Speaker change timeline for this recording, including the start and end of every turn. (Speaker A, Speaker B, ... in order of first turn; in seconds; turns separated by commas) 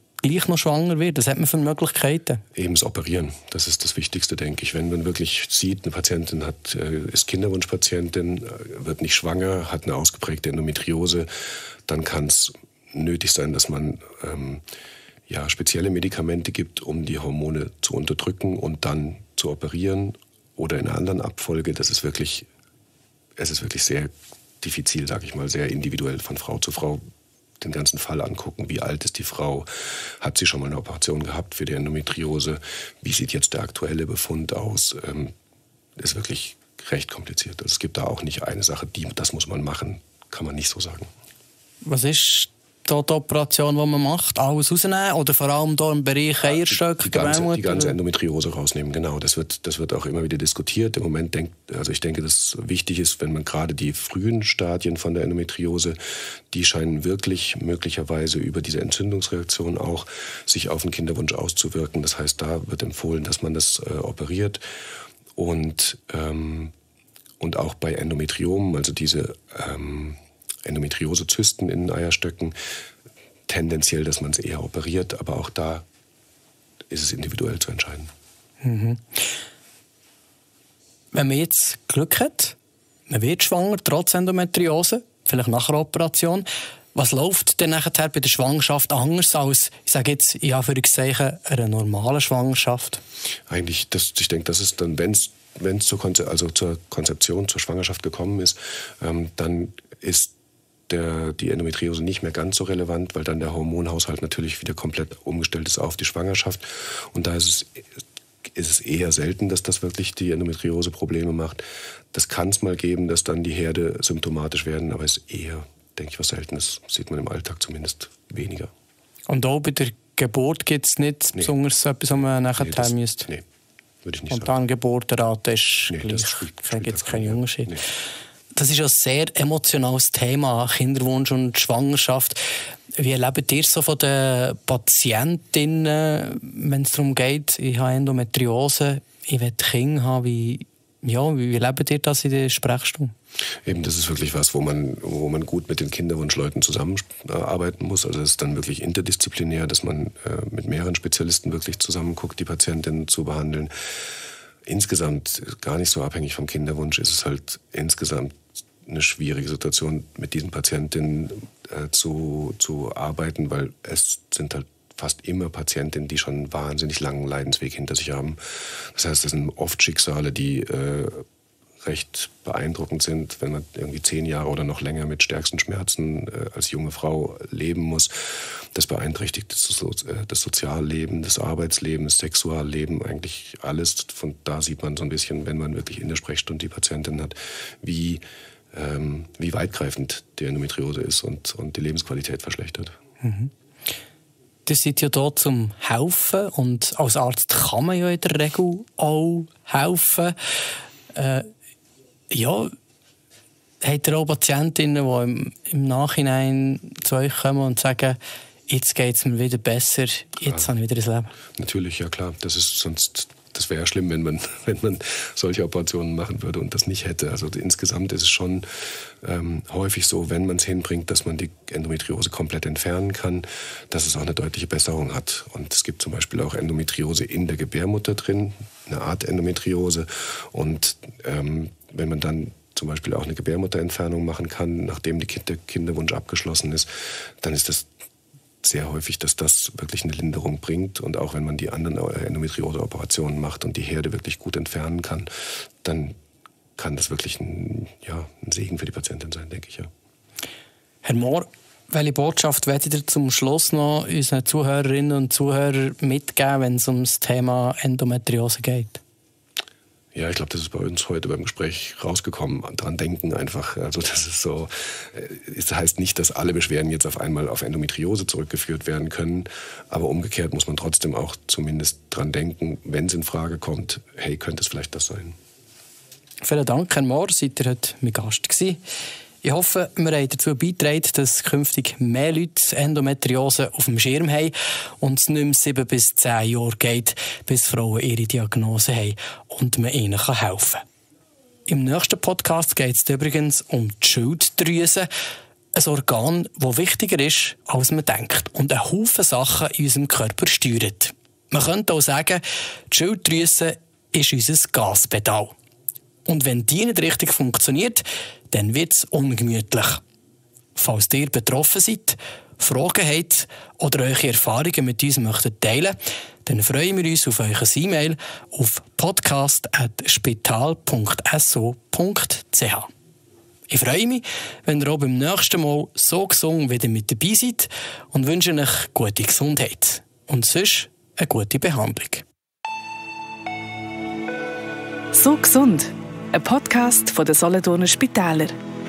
Speaker A: 0.2-2.4, Speaker B: 2.5-11.3, Speaker B: 11.9-14.6, Speaker B: 15.3-22.5, Speaker B: 23.4-27.0, Speaker B: 27.6-35.3, Speaker B: 36.0-41.1, Speaker A: 41.8-48.0, Speaker B: 46.5-56.0, Speaker B: 56.5-64.6, Speaker B: 65.4-66.7, Speaker B: 67.4-72.6, Speaker B: 73.5-75.9, Speaker B: 76.9-78.1, Speaker A: 78.6-79.2, Speaker A: 81.1-82.6, Speaker A: 83.1-93.0, Speaker B: 93.5-100.3, Speaker B: 100.9-118.7, Speaker A: 119.3-123.3, Speaker B: 122.6-123.5, Speaker B: 124.0-124.5, Speaker A: 124.3-127.7, Speaker B: 125.9-127.8, Speaker A: 128.6-132.4, Speaker A: 132.9-143.1, Speaker B: 143.6-153.7, Speaker B: 154.7-171.3, Speaker B: 171.8-188.2, Speaker B: 188.7-192.9, Speaker A: 193.2-193.5, Speaker A: 194.7-200.6, Speaker A: 201.1-201.5, Speaker A: 202.3-202.7, Speaker A: 203.8-211.3, Speaker B: 211.6-218.7, Speaker B: 219.2-236.9, Speaker B: 237.4-237.9, Speaker B: 238.6-245.3, Speaker B: 245.8-246.2, Speaker B: 246.8-249.9, Speaker A: 251.0-259.0, Speaker B: 260.1-275.4, Speaker A: 276.4-278.8, Speaker A: 279.4-290.8, Speaker A: 291.7-295.1, Speaker A: 295.8-305.6, Speaker A: 306.3-310.0, Speaker A: 310.8-322.9, Speaker A: 323.7-332.2, Speaker C: 335.1-338.6